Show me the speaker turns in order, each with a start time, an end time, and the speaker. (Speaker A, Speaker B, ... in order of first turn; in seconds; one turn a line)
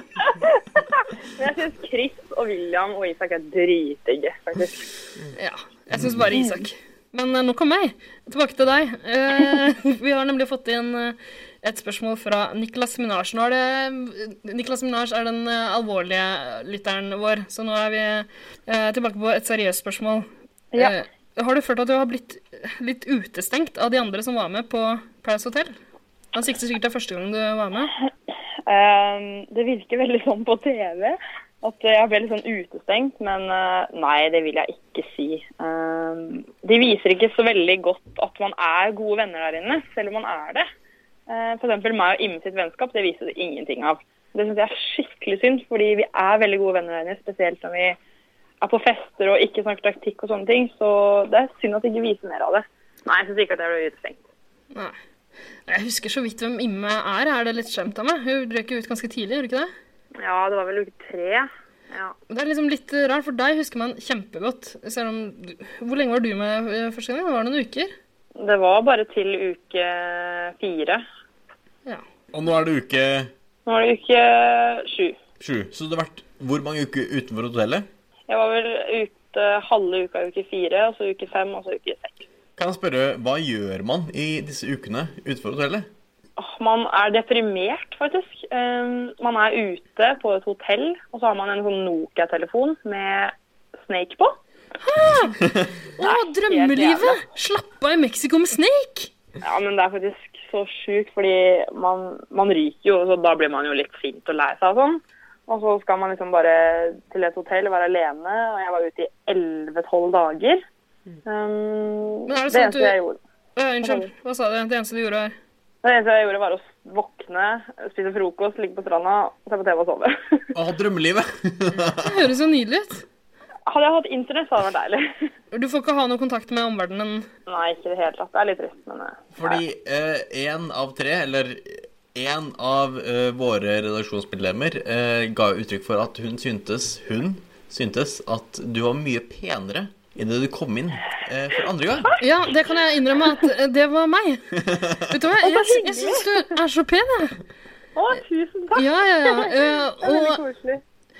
Speaker A: 0.2-4.8
Speaker B: 5.3-25.7
Speaker A: 6.3-6.7
Speaker B: 26.3-27.9
Speaker A: 28.7-40.7
Speaker A: 41.3-48.0
Speaker A: 48.6-54.2
Speaker B: 55.7-59.7
Speaker A: 60.2-62.1
Speaker B: 62.3-67.9
Speaker A: 68.4-71.0
Speaker C: 72.3-73.3
Speaker A: 73.7-75.2
Speaker C: 75.4-77.9
Speaker A: 78.3-82.3
Speaker C: 82.6-85.9
Speaker A: 86.4-94.3
Speaker B: 94.8-95.4
Speaker B: 96.0-99.1
Speaker A: 96.0-97.2
Speaker A: 99.4-110.6
Speaker A: 111.2-113.2
Speaker B: 112.3-113.0
Speaker B: 113.6-115.3
Speaker A: 113.8-114.1
Speaker A: 115.8-120.4
Speaker C: 120.5-122.1
Speaker B: 122.0-123.0
Speaker A: 123.7-125.1
Speaker B: 125.5-127.3
Speaker A: 127.5-129.6
Speaker C: 129.3-142.1
Speaker B: 142.2-144.4
Speaker C: 144.7-145.0
Speaker B: 145.1-147.4
Speaker A: 145.4-146.5
Speaker A: 147.9-150.8
Speaker B: 148.7-150.4